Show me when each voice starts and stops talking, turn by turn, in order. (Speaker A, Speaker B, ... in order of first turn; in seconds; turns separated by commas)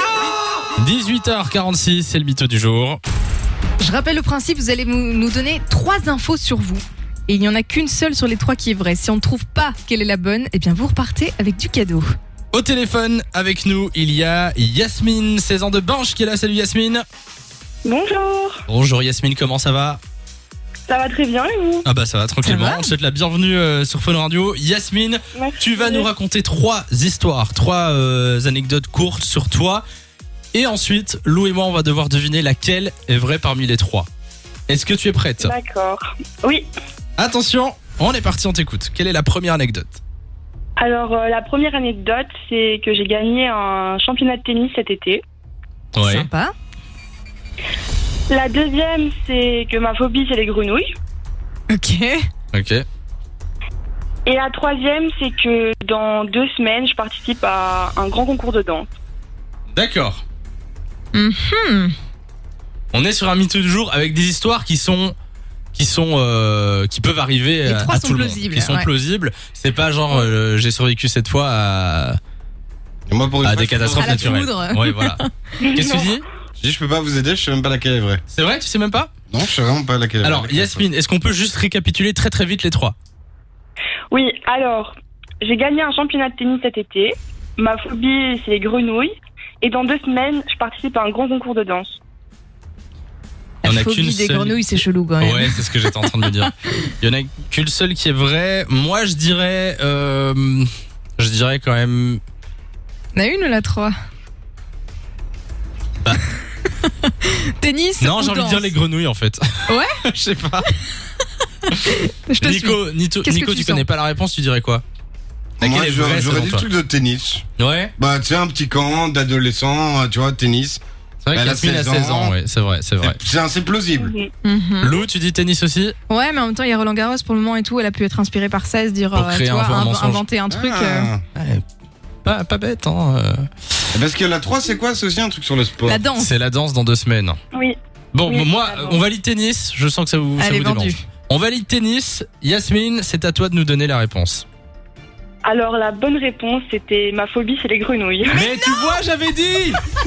Speaker A: 0.8-3.0, Speaker B: 3.8-12.1, Speaker A: 12.5-17.0, Speaker C: 17.8-18.6, Speaker A: 18.7-20.0, Speaker C: 20.9-21.8, Speaker A: 21.8-29.8, Speaker B: 22.4-22.9, Speaker C: 25.3-26.1, Speaker A: 30.5-34.1, Speaker A: 34.7-35.5, Speaker C: 35.4-36.7, Speaker A: 37.2-40.0, Speaker C: 40.8-45.2, Speaker A: 45.9-46.3, Speaker B: 46.0-46.5, Speaker C: 48.3-50.9, Speaker B: 51.7-52.2, Speaker A: 52.5-52.8, Speaker C: 54.2-58.9, Speaker A: 59.7-60.2, Speaker B: 61.1-61.9, Speaker A: 62.9-65.1, Speaker A: 65.7-72.2, Speaker B: 67.6-68.9, Speaker D: 73.1-74.4, Speaker A: 73.4-75.2, Speaker B: 73.9-75.3, Speaker C: 75.6-76.2, Speaker A: 75.7-76.2, Speaker D: 76.6-78.2, Speaker A: 78.3-79.1, Speaker D: 79.3-80.9, Speaker A: 80.2-82.9, Speaker C: 84.1-92.0, Speaker B: 93.6-96.5, Speaker A: 93.6-94.6, Speaker A: 95.2-102.2, Speaker B: 103.1-103.9, Speaker B: 107.6-108.7, Speaker A: 108.0-110.7, Speaker B: 111.7-113.8, Speaker A: 112.4-114.8, Speaker D: 115.6-117.4, Speaker A: 115.6-116.7, Speaker A: 117.6-117.9, Speaker D: 118.0-120.8, Speaker A: 121.2-123.2, Speaker D: 121.3-122.3, Speaker D: 123.0-124.1, Speaker C: 124.0-124.3, Speaker B: 124.4-125.0, Speaker A: 124.8-126.0, Speaker B: 126.1-131.1, Speaker A: 129.1-130.2, Speaker D: 130.5-131.2, Speaker A: 131.3-131.6, Speaker A: 132.2-133.7, Speaker D: 133.9-136.0, Speaker B: 135.8-136.3, Speaker A: 136.2-137.4, Speaker C: 137.5-139.0, Speaker A: 138.1-144.4, Speaker B: 140.4-141.0, Speaker C: 145.4-148.4, Speaker A: 148.3-149.8, Speaker B: 148.5-148.9